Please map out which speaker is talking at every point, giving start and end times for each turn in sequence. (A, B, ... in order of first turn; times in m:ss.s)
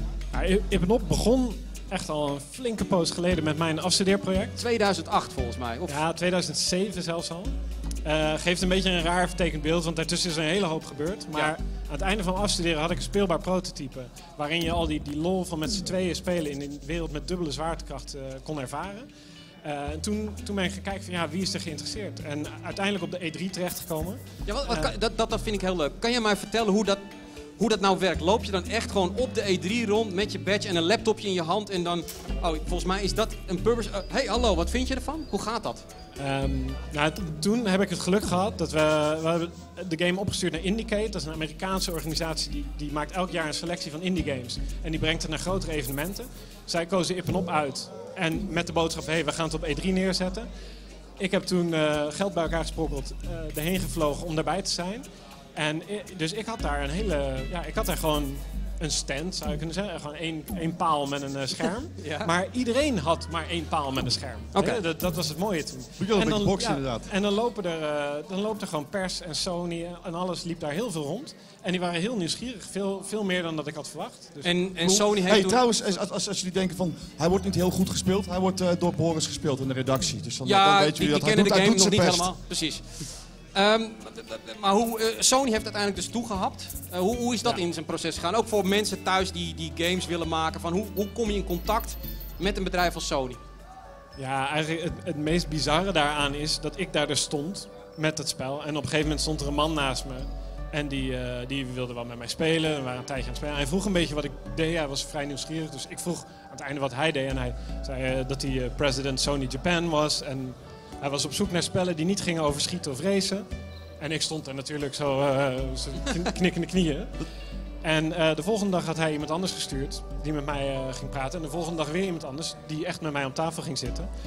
0:00.3-0:04.6 A
0:04.6-0:06.0 B
0:05.9-0:19.1 A
0:19.6-0:24.9 A
0:24.5-0:27.0 B
0:27.6-0:35.8 B
0:36.2-0:50.5 A
0:51.2-0:55.0 A
0:55.6-1:14.7 A
1:02.0-1:02.3 B
1:04.6-1:04.8 B
1:06.0-1:07.1 C
1:14.4-1:15.6 B
1:14.8-1:22.3 C
1:20.4-1:22.8 B
1:23.5-1:33.4 B
1:34.2-1:53.4 A
1:54.0-1:57.1 A
1:57.8-2:04.1 A